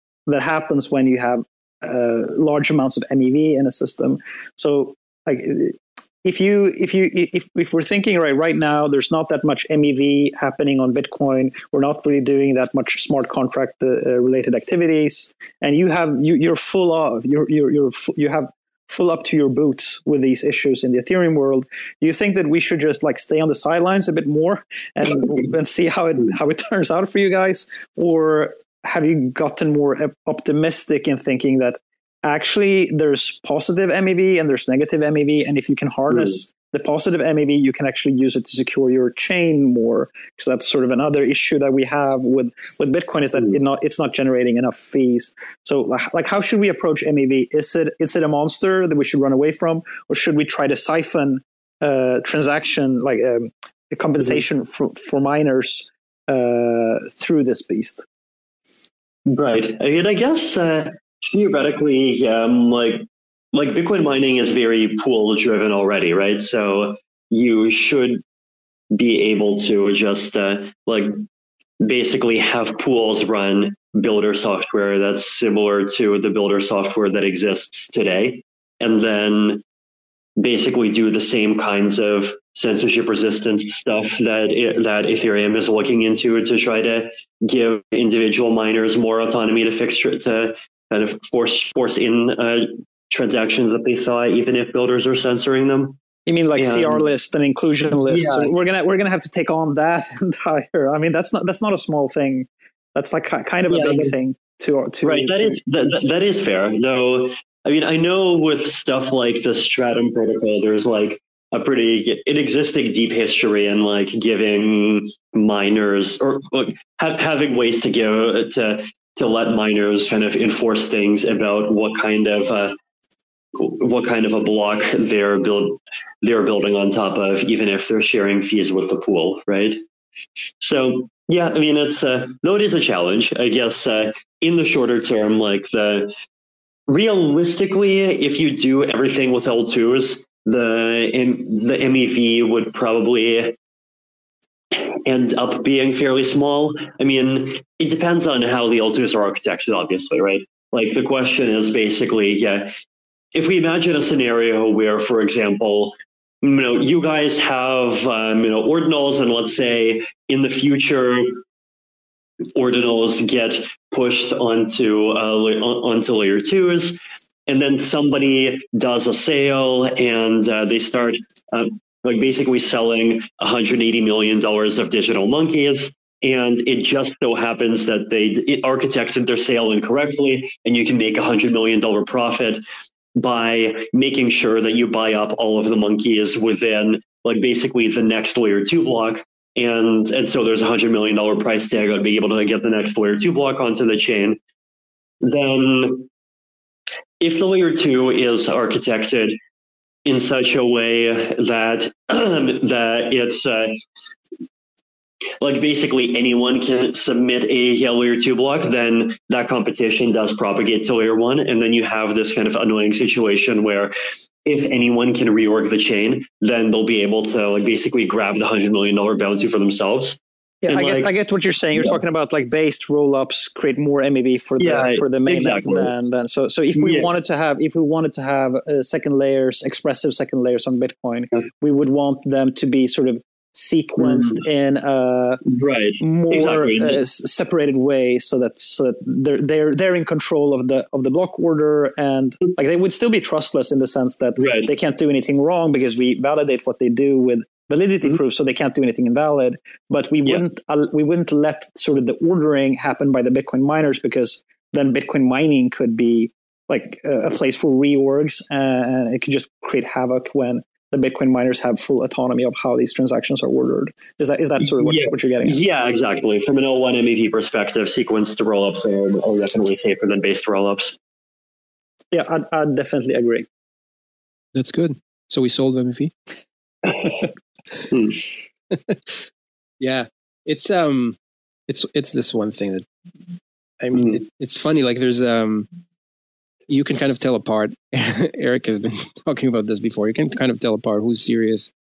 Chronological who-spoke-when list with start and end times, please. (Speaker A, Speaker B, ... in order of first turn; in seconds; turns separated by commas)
Speaker A: 0.3-58.0, Speaker B: 59.3-68.2, Speaker B: 68.9-71.2, Speaker B: 71.8-79.6, Speaker B: 80.4-96.0, Speaker A: 96.3-105.6, Speaker B: 96.6-97.0, Speaker B: 98.1-98.5, Speaker B: 103.7-104.1, Speaker B: 105.0-122.8, Speaker B: 123.5-129.8, Speaker B: 130.6-136.1, Speaker B: 136.9-143.6, Speaker B: 145.1-152.7, Speaker B: 153.3-161.4, Speaker B: 162.6-182.6, Speaker B: 183.2-194.4, Speaker B: 195.2-196.1, Speaker B: 197.2-199.4, Speaker B: 200.1-203.8, Speaker B: 205.4-213.9, Speaker B: 214.4-220.2, Speaker A: 220.6-235.4, Speaker B: 220.7-221.1, Speaker B: 224.6-225.9, Speaker B: 226.8-227.1, Speaker B: 234.0-234.4, Speaker B: 235.5-237.0, Speaker A: 236.0-265.6, Speaker B: 244.4-244.7, Speaker B: 264.8-271.0, Speaker A: 272.1-273.5, Speaker C: 274.5-276.1, Speaker B: 277.9-278.2, Speaker C: 278.7-279.2, Speaker C: 279.8-281.2, Speaker C: 281.7-282.9, Speaker C: 283.8-285.7, Speaker B: 283.9-284.2, Speaker C: 286.7-291.7